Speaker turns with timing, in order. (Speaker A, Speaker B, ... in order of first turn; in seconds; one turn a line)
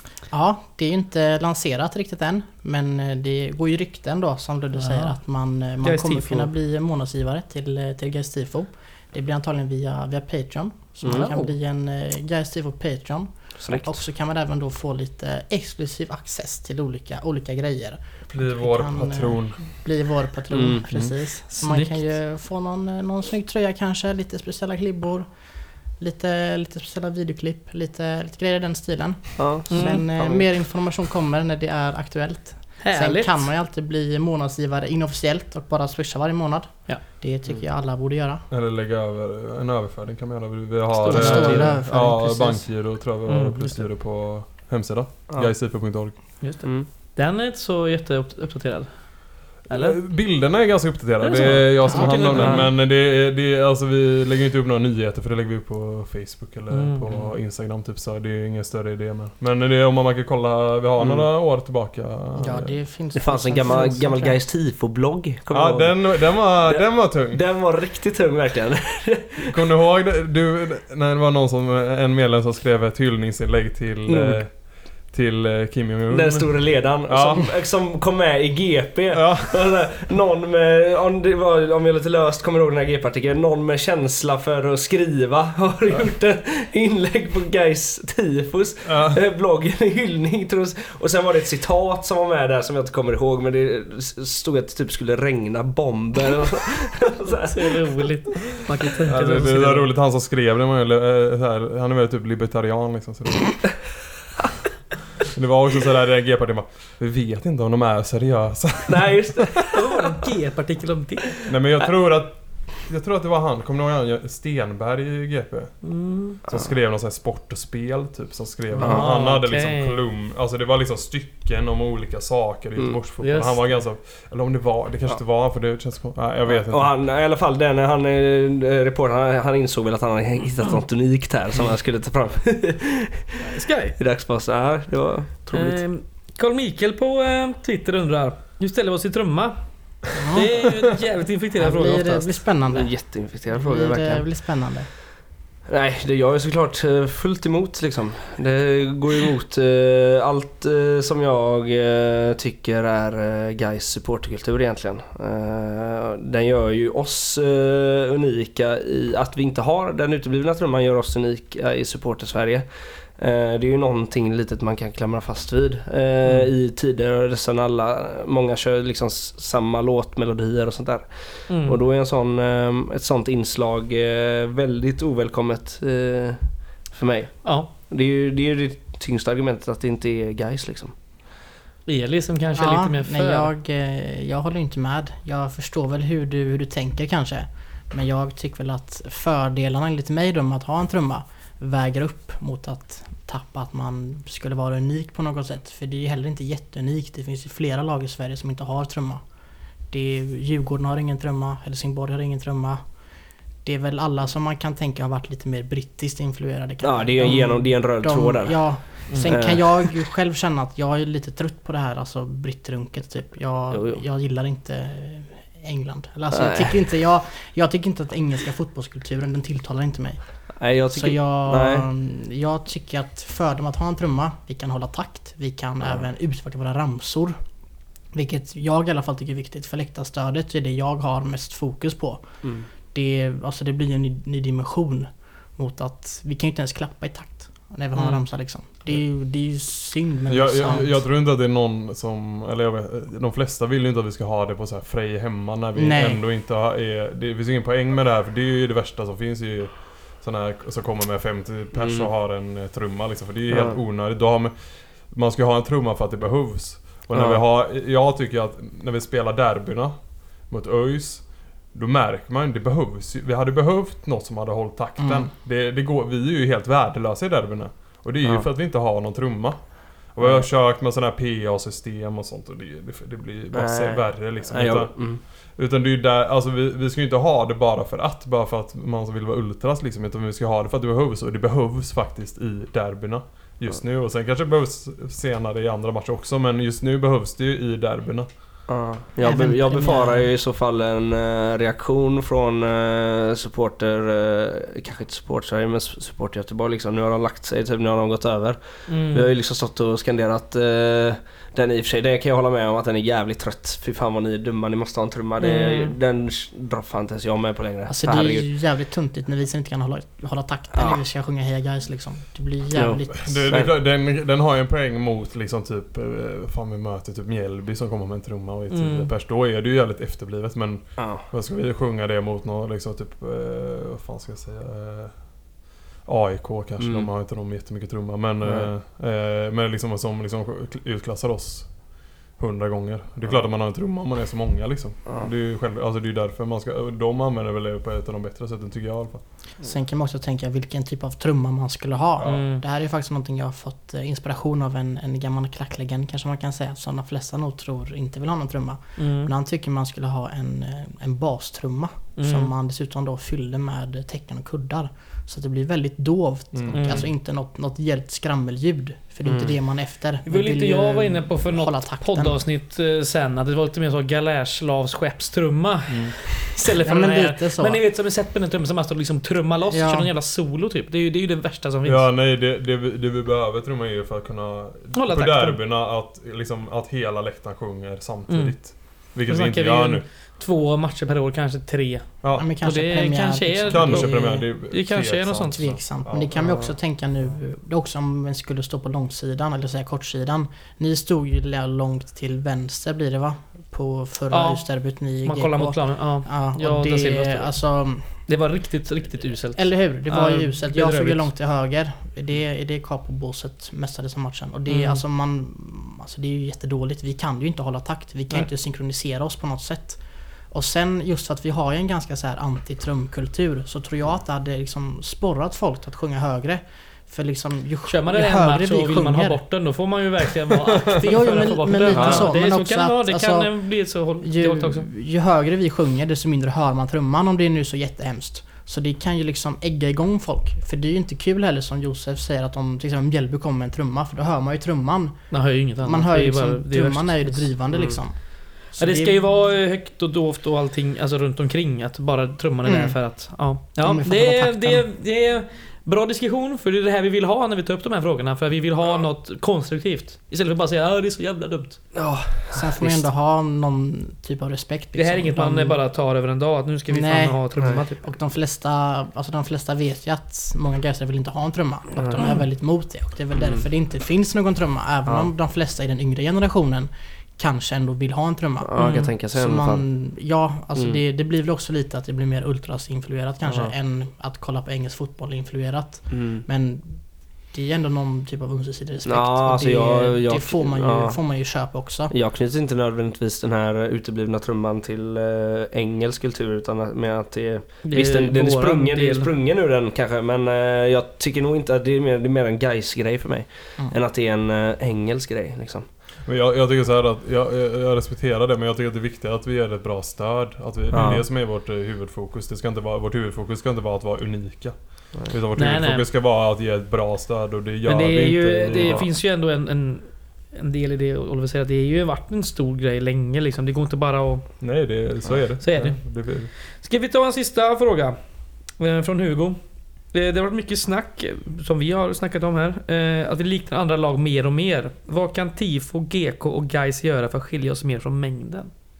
Speaker A: 0.3-38.5
Speaker B: 4.8-6.5
Speaker C: 11.0-11.3
Speaker B: 11.0-11.5
Speaker C: 13.6-14.0
Speaker D: 18.3-19.7
Speaker C: 20.5-20.9
Speaker B: 21.5-22.0
Speaker C: 29.4-30.5
Speaker B: 29.7-30.0
Speaker B: 32.8-33.5
Speaker D: 38.5-46.4
Speaker B: 41.0-42.1
Speaker A: 41.1-42.6
Speaker B: 43.0-43.9
Speaker B: 46.4-50.2
Speaker C: 46.6-46.9
Speaker D: 49.7-62.7
Speaker B: 51.2-52.7
Speaker A: 51.9-52.4
Speaker C: 52.3-52.6
Speaker B: 56.7-57.1
Speaker C: 61.0-61.3
Speaker A: 62.4-64.4
Speaker C: 63.1-69.5
Speaker D: 65.5-67.4
Speaker D: 69.5-77.5
Speaker C: 74.1-74.4
Speaker C: 76.1-98.1
Speaker D: 79.1-79.8
Speaker D: 88.8-89.2
Speaker B: 97.2-99.9
Speaker D: 99.0-104.0
Speaker D: 105.3-109.4
Speaker C: 108.9-110.2
Speaker B: 109.7-111.3
Speaker D: 111.5-126.9
Speaker B: 115.8-116.4
Speaker B: 118.7-119.9
Speaker C: 118.8-119.1
Speaker B: 123.2-123.6
Speaker C: 126.5-135.8
Speaker B: 133.4-133.9
Speaker B: 135.5-142.4
Speaker A: 140.2-140.5
Speaker A: 141.6-144.9
Speaker C: 142.7-144.4
Speaker C: 145.7-180.9
Speaker B: 171.5-171.8
Speaker B: 177.4-177.7
Speaker B: 181.8-183.5
Speaker A: 182.6-203.0
Speaker A: 203.6-241.0
Speaker C: 206.8-210.1
Speaker B: 209.1-209.3
Speaker C: 213.7-214.0
Speaker C: 216.3-216.7
Speaker C: 220.6-221.9
Speaker C: 232.4-232.7
Speaker B: 237.9-238.2
Speaker D: 240.3-288.7
Speaker A: 245.8-246.2
Speaker C: 251.7-252.1
Speaker C: 253.5-253.8
Speaker C: 257.1-257.4
Speaker A: 265.0-265.3
Speaker C: 270.2-270.5
Speaker C: 273.5-275.2
Speaker C: 288.7-308.5
Speaker A: 289.2-290.3
Speaker B: 298.9-299.3
Speaker B: 305.4-305.9
Speaker A: 307.9-313.5
Speaker C: 310.7-311.0
Speaker C: 312.7-313.7
Speaker D: 313.2-339.3
Speaker B: 318.7-319.1
Speaker C: 321.0-321.3
Speaker C: 326.8-327.1
Speaker C: 328.4-328.7
Speaker C: 335.1-335.3
Speaker A: 339.6-362.4
Speaker B: 342.2-342.6
Speaker B: 349.0-349.3
Speaker B: 352.2-352.5
Speaker D: 356.5-357.0
Speaker B: 356.7-357.1
Speaker C: 359.2-359.6
Speaker B: 360.2-372.1
Speaker D: 365.9-366.3
Speaker A: 366.8-367.8
Speaker A: 369.7-370.1
Speaker D: 371.8-380.1
Speaker B: 374.9-375.6
Speaker B: 378.3-385.6
Speaker D: 382.2-382.5
Speaker A: 382.3-384.5
Speaker D: 383.7-386.6
Speaker A: 385.5-398.3
Speaker C: 386.4-386.7
Speaker B: 394.3-401.3
Speaker A: 399.5-419.6
Speaker B: 404.7-405.0
Speaker B: 417.9-424.9
Speaker A: 420.9-439.3
Speaker C: 421.9-422.3
Speaker B: 435.3-437.5
Speaker C: 437.7-438.0
Speaker B: 438.7-451.8
Speaker A: 442.6-444.9
Speaker C: 451.9-453.1
Speaker A: 452.5-455.8
Speaker B: 454.9-458.1
Speaker A: 456.9-482.1
Speaker C: 461.9-462.2
Speaker C: 463.3-463.6
Speaker C: 465.1-465.3
Speaker C: 468.6-469.9
Speaker B: 468.8-469.1
Speaker C: 473.4-473.7
Speaker C: 476.1-476.4
Speaker C: 479.1-495.9
Speaker B: 487.8-489.3
Speaker D: 496.2-509.1
Speaker C: 500.9-501.2
Speaker B: 505.6-506.1
Speaker B: 507.9-514.5
Speaker D: 514.6-516.5
Speaker B: 515.6-518.2
Speaker B: 518.7-528.7